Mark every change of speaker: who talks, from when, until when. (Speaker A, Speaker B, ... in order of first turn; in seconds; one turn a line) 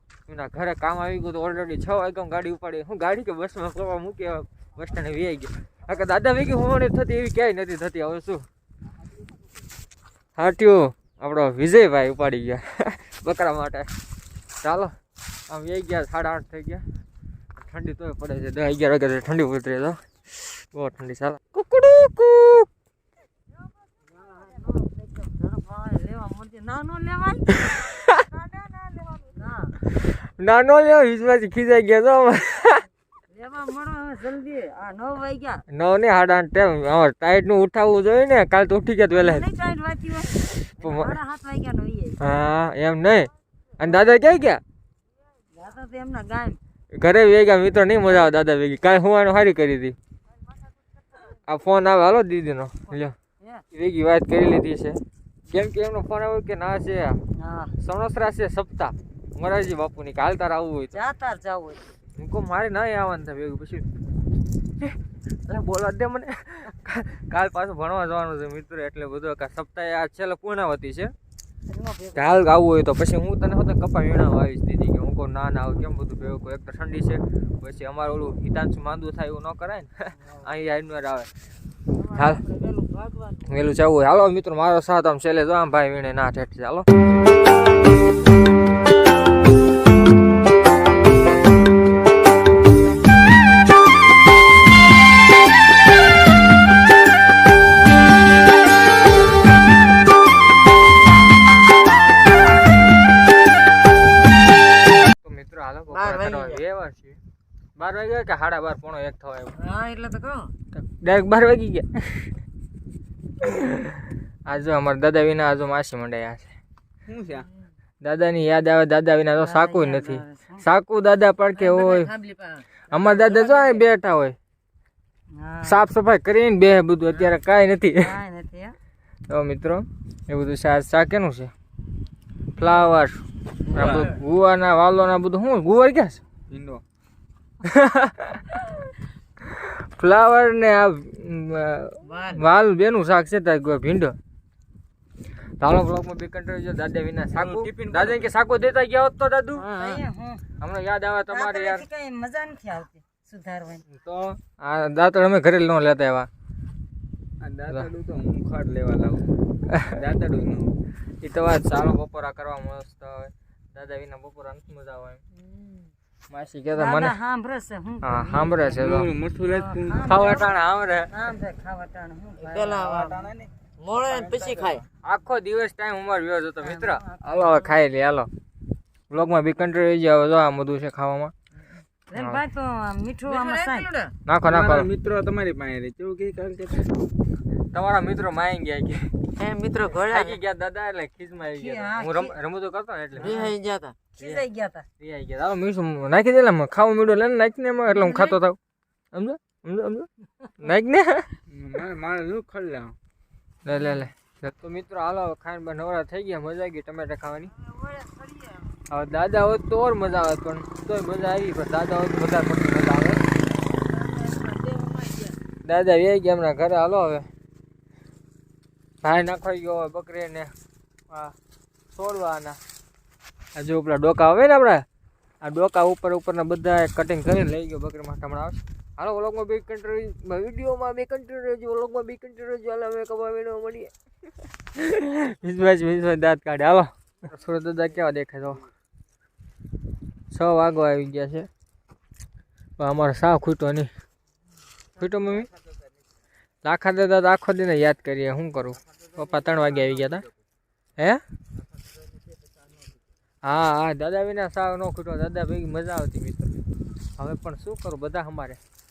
Speaker A: 0.3-8.4
Speaker A: 10.4-13.9
Speaker A: 14.6-15.0
Speaker A: 15.5-16.9
Speaker A: 17.6-22.7
Speaker B: 24.2-27.8
Speaker A: 27.6-28.2
Speaker B: 28.4-29.8
Speaker A: 29.9-32.9
Speaker B: 33.3-35.6
Speaker A: 35.7-39.5
Speaker B: 39.1-42.3
Speaker A: 40.4-41.2
Speaker A: 42.2-44.6
Speaker B: 45.5-46.6
Speaker A: 46.9-50.0
Speaker A: 51.5-53.2
Speaker A: 53.7-57.2
Speaker B: 57.4-57.8
Speaker A: 57.8-61.0
Speaker B: 60.9-61.9
Speaker A: 62.2-63.9
Speaker A: 64.8-71.1
Speaker B: 71.7-72.4
Speaker A: 72.1-81.3
Speaker B: 82.0-83.4
Speaker A: 82.1-82.4
Speaker A: 83.5-86.9
Speaker A: 105.2-107.2
Speaker C: 105.9-106.6
Speaker A: 107.8-109.6
Speaker B: 109.6-110.5
Speaker A: 110.7-112.4
Speaker A: 113.4-116.5
Speaker D: 117.1-117.5
Speaker A: 118.0-122.1
Speaker B: 119.4-120.6
Speaker B: 121.5-123.8
Speaker A: 122.9-124.4
Speaker B: 125.3-125.8
Speaker A: 125.7-128.1
Speaker B: 128.0-128.8
Speaker A: 129.3-131.5
Speaker A: 132.6-136.2
Speaker D: 133.7-134.2
Speaker D: 136.5-136.8
Speaker A: 137.6-138.8
Speaker A: 139.4-144.2
Speaker B: 142.0-142.5
Speaker A: 145.6-149.7
Speaker D: 147.3-148.3
Speaker B: 149.6-150.4
Speaker C: 149.8-150.0
Speaker A: 150.6-151.8
Speaker B: 151.3-153.9
Speaker A: 153.9-156.3
Speaker D: 157.4-160.8
Speaker A: 159.7-159.9
Speaker A: 161.2-165.2
Speaker B: 165.4-165.9
Speaker A: 166.3-167.2
Speaker B: 166.8-168.8
Speaker A: 168.0-169.1
Speaker D: 168.6-170.3
Speaker B: 169.4-170.5
Speaker A: 170.1-171.1
Speaker B: 171.1-173.3
Speaker C: 172.4-173.2
Speaker D: 172.9-174.8
Speaker C: 173.8-174.8
Speaker A: 175.0-178.3
Speaker B: 176.6-177.8
Speaker A: 179.1-181.3
Speaker B: 182.1-184.1
Speaker A: 182.1-182.4
Speaker C: 183.3-183.9
Speaker A: 184.3-184.9
Speaker D: 184.4-187.0
Speaker A: 187.7-189.3
Speaker C: 189.4-190.4
Speaker A: 189.9-193.5
Speaker B: 191.6-192.3
Speaker C: 193.2-194.0
Speaker B: 194.2-194.9
Speaker A: 195.0-198.6
Speaker B: 197.9-198.4
Speaker A: 199.1-201.3
Speaker D: 201.5-203.0
Speaker A: 203.7-207.5
Speaker B: 207.7-208.8
Speaker A: 208.9-213.2
Speaker B: 214.0-215.3
Speaker A: 215.6-217.3
Speaker A: 219.0-220.5
Speaker A: 221.1-221.3
Speaker A: 221.9-222.6
Speaker A: 223.6-224.8
Speaker A: 225.4-233.9
Speaker A: 234.7-238.7
Speaker A: 240.3-241.5
Speaker A: 242.8-243.9
Speaker A: 245.0-245.5
Speaker A: 246.7-250.3
Speaker D: 249.1-250.4
Speaker D: 252.4-252.9
Speaker A: 253.4-256.6
Speaker A: 257.2-258.6